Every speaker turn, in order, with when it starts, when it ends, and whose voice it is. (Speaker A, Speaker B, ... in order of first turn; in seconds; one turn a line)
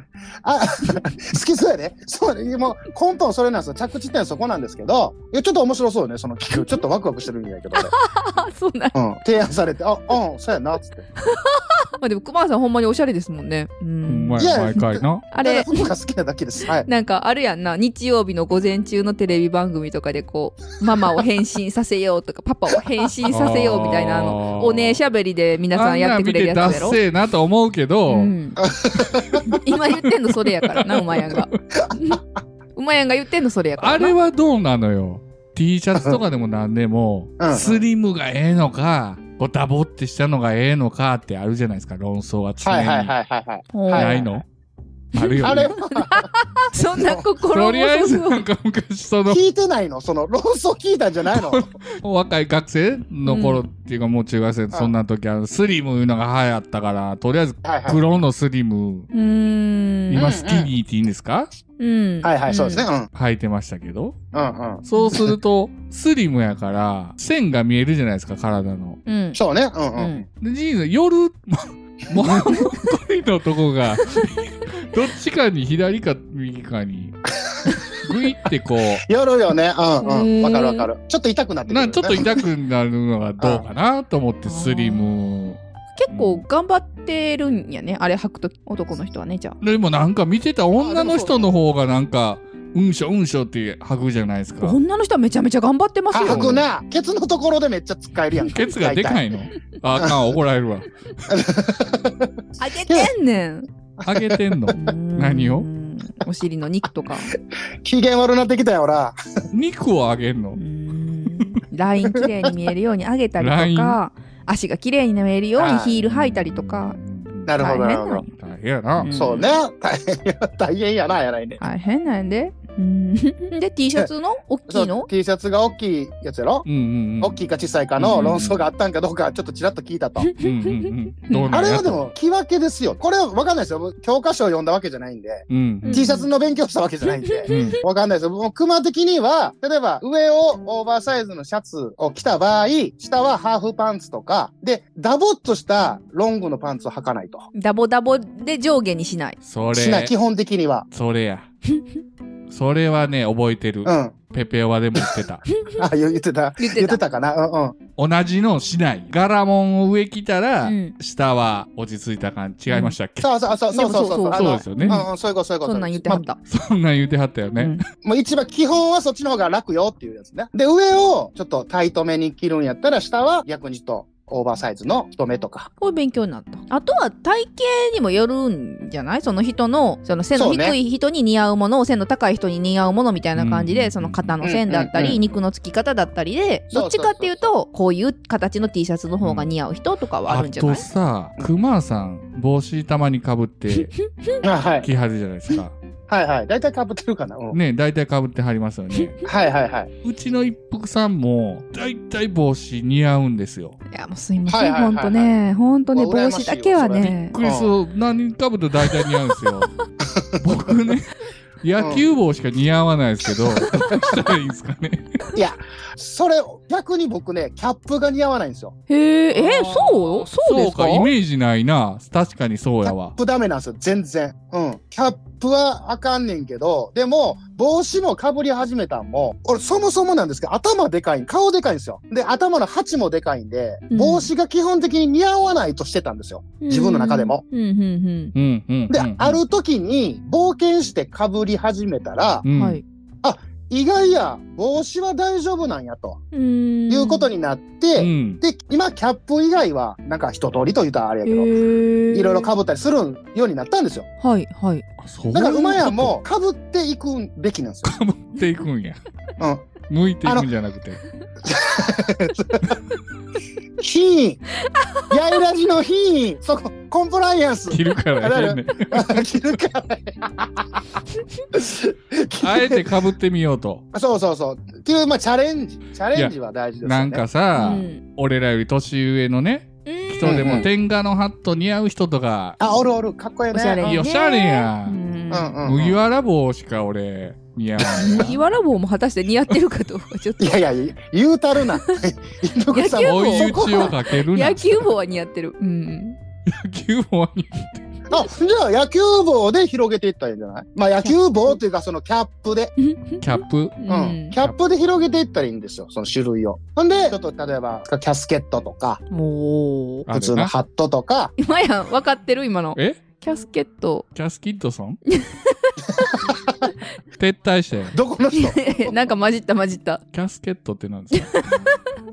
Speaker A: 0.4-7.9
Speaker B: 7.7-8.9
Speaker A: 8.9-11.0
Speaker B: 11.2-15.9
Speaker C: 14.1-15.2
Speaker A: 14.4-16.9
Speaker B: 16.8-27.0
Speaker C: 23.3-25.0
Speaker C: 25.7-28.3
Speaker B: 28.1-28.6
Speaker A: 28.6-29.4
Speaker B: 29.3-32.2
Speaker C: 29.5-30.0
Speaker C: 30.6-31.6
Speaker A: 31.8-32.1
Speaker B: 32.8-34.1
Speaker C: 33.8-43.1
Speaker A: 37.4-37.8
Speaker A: 42.6-44.3
Speaker B: 43.7-44.2
Speaker C: 43.9-44.4
Speaker C: 45.1-45.7
Speaker B: 45.1-48.4
Speaker A: 45.4-46.3
Speaker A: 47.0-47.2
Speaker C: 47.5-49.4
Speaker A: 49.3-51.7
Speaker C: 51.3-59.1
Speaker B: 53.2-53.6
Speaker A: 57.6-58.0
Speaker B: 59.1-60.2
Speaker C: 60.1-61.5
Speaker A: 60.1-60.7
Speaker B: 61.8-62.9
Speaker A: 62.2-63.1
Speaker C: 63.1-64.2
Speaker A: 64.3-65.2
Speaker C: 64.8-69.0
Speaker B: 69.0-69.4
Speaker A: 69.3-70.2
Speaker B: 70.0-70.2
Speaker C: 70.4-77.2
Speaker C: 77.9-79.0
Speaker A: 79.0-82.4
Speaker B: 80.0-80.9
Speaker C: 81.7-85.6
Speaker B: 84.4-85.1
Speaker B: 86.0-89.6
Speaker C: 86.1-86.4
Speaker C: 89.6-94.8
Speaker A: 90.8-91.5
Speaker B: 94.6-96.6
Speaker A: 96.1-99.2
Speaker C: 96.2-96.6
Speaker C: 98.5-100.9
Speaker A: 101.3-102.3
Speaker B: 102.6-103.7
Speaker A: 104.0-104.3
Speaker C: 104.0-105.7
Speaker B: 104.7-107.3
Speaker A: 107.8-109.2
Speaker C: 109.5-110.6
Speaker B: 110.6-117.0
Speaker A: 112.1-112.5
Speaker C: 113.4-114.0
Speaker A: 115.6-116.0
Speaker C: 116.0-117.5
Speaker A: 117.5-118.2
Speaker B: 117.6-118.2
Speaker C: 118.2-119.1
Speaker B: 119.0-119.5
Speaker A: 119.1-121.6
Speaker B: 121.6-125.1
Speaker A: 124.7-126.7
Speaker C: 126.7-127.4
Speaker A: 127.2-130.3
Speaker C: 128.0-128.6
Speaker B: 130.2-131.5
Speaker C: 130.4-132.1
Speaker A: 131.5-147.5
Speaker C: 135.5-136.1
Speaker B: 135.8-136.3
Speaker B: 137.2-137.8
Speaker C: 137.5-137.8
Speaker B: 147.5-149.4
Speaker C: 149.4-150.1
Speaker A: 149.7-150.8
Speaker C: 150.9-151.5
Speaker C: 152.5-155.4
Speaker A: 153.8-154.1
Speaker A: 155.8-157.8
Speaker B: 156.6-157.0
Speaker C: 158.0-163.3
Speaker B: 160.6-160.9
Speaker B: 162.7-162.9
Speaker A: 163.2-166.2
Speaker B: 163.7-165.1
Speaker C: 164.3-165.0
Speaker B: 165.6-166.4
Speaker C: 166.5-167.8
Speaker B: 167.6-167.8
Speaker A: 168.0-175.7
Speaker B: 175.8-190.8
Speaker A: 180.3-180.8
Speaker C: 183.3-184.3
Speaker A: 184.4-185.2
Speaker A: 186.7-187.4
Speaker C: 189.2-189.5
Speaker C: 190.2-193.9
Speaker A: 194.4-194.9
Speaker C: 194.8-195.7
Speaker A: 196.1-197.6
Speaker C: 197.5-199.2
Speaker A: 199.2-199.9
Speaker C: 200.0-203.8
Speaker B: 203.9-207.3
Speaker A: 204.5-205.3
Speaker A: 205.9-207.7
Speaker C: 207.0-209.7
Speaker A: 210.1-210.4
Speaker C: 210.4-215.2
Speaker A: 211.8-212.0
Speaker A: 213.9-214.2
Speaker A: 215.3-218.7
Speaker B: 218.9-221.1
Speaker C: 219.3-223.1
Speaker A: 222.8-237.4
Speaker B: 233.9-234.3
Speaker B: 236.6-238.3
Speaker C: 238.3-239.4
Speaker A: 238.9-242.4
Speaker C: 242.4-242.8
Speaker B: 242.5-242.8
Speaker A: 243.2-246.2
Speaker B: 246.3-247.3
Speaker A: 246.9-251.5
Speaker C: 248.0-248.4
Speaker B: 251.2-252.5
Speaker A: 252.1-254.1
Speaker B: 254.2-254.8
Speaker C: 255.0-256.2
Speaker A: 255.3-257.9
Speaker C: 257.8-259.0
Speaker A: 259.4-259.7
Speaker C: 259.9-261.0
Speaker A: 261.4-262.8
Speaker A: 263.8-264.4
Speaker A: 265.1-270.8
Speaker C: 267.7-269.2
Speaker A: 271.5-272.9
Speaker C: 272.4-273.8
Speaker A: 273.9-277.2
Speaker C: 276.1-282.6
Speaker B: 277.6-278.0
Speaker B: 279.9-280.5
Speaker A: 280.2-280.7
Speaker A: 282.6-283.8
Speaker B: 283.5-285.5
Speaker C: 283.8-285.0
Speaker A: 285.3-286.0
Speaker C: 285.6-288.4
Speaker A: 287.8-288.3
Speaker B: 287.9-290.6
Speaker A: 290.4-294.0
Speaker B: 292.7-296.2
Speaker C: 293.0-294.9
Speaker C: 296.4-297.9
Speaker A: 298.1-302.7
Speaker B: 302.8-304.3
Speaker C: 303.2-303.8
Speaker A: 303.9-309.0
Speaker B: 309.1-310.1
Speaker C: 310.1-310.5
Speaker A: 310.1-311.3
Speaker B: 311.4-314.1
Speaker C: 312.8-313.0
Speaker C: 314.1-315.0
Speaker B: 315.1-316.3
Speaker A: 316.1-316.6
Speaker C: 317.2-317.9
Speaker A: 317.9-319.0
Speaker B: 318.3-320.0
Speaker C: 320.1-321.5
Speaker B: 321.1-321.8